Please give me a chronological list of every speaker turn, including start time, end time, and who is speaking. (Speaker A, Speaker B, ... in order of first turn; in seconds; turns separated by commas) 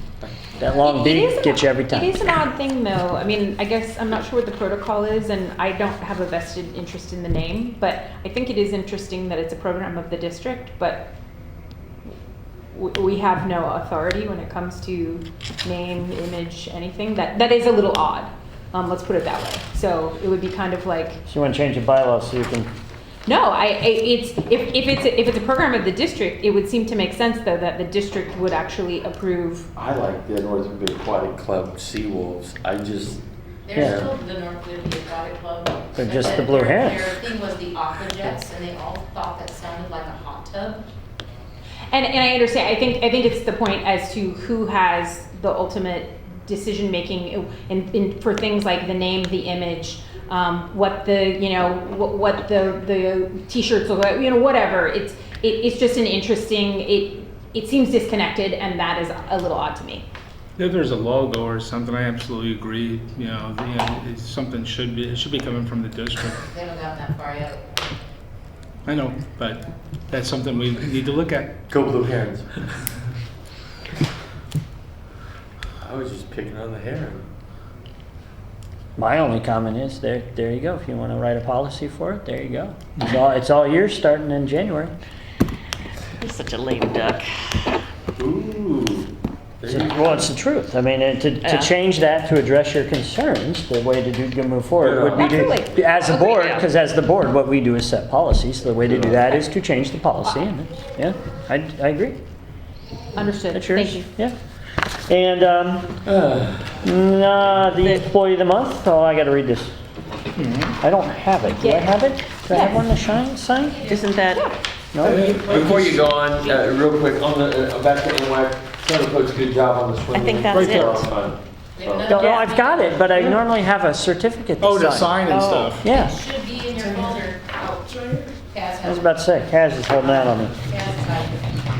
Speaker A: 0.6-2.4, Speaker B: 0.6-11.1, Speaker B: 12.7-21.2, Speaker A: 21.3-22.7, Speaker B: 23.3-29.7, Speaker C: 29.8-33.2, Speaker D: 33.6-40.8, Speaker C: 33.8-34.1, Speaker A: 33.8-34.0, Speaker A: 36.0-37.1, Speaker B: 41.9-60.1, Speaker E: 60.6-66.4, Speaker D: 66.4-67.6, Speaker E: 68.8-71.6, Speaker C: 71.7-72.7, Speaker C: 75.8-77.2, Speaker A: 79.0-84.9, Speaker F: 86.2-87.3, Speaker C: 88.2-90.3, Speaker A: 89.7-102.2, Speaker F: 91.4-91.7, Speaker C: 94.8-95.4, Speaker B: 95.1-96.4, Speaker F: 96.2-96.7, Speaker C: 98.9-99.3, Speaker B: 103.2-104.1, Speaker A: 103.5-104.3, Speaker A: 105.1-106.0, Speaker C: 106.0-106.9, Speaker A: 106.8-109.7, Speaker F: 107.8-108.1, Speaker E: 110.4-110.8, Speaker A: 110.8-113.8, Speaker B: 111.6-112.8, Speaker D: 113.7-114.0, Speaker F: 113.9-114.5, Speaker A: 114.9-115.5, Speaker E: 115.0-116.1, Speaker C: 115.3-122.2, Speaker F: 120.1-121.1, Speaker E: 120.5-121.1, Speaker D: 121.8-123.2, Speaker A: 122.1-125.2, Speaker F: 122.1-122.5, Speaker E: 124.6-125.9, Speaker F: 125.3-125.8, Speaker A: 125.8-126.2, Speaker D: 125.9-127.9, Speaker D: 128.5-129.1, Speaker A: 128.8-130.6, Speaker D: 130.6-131.5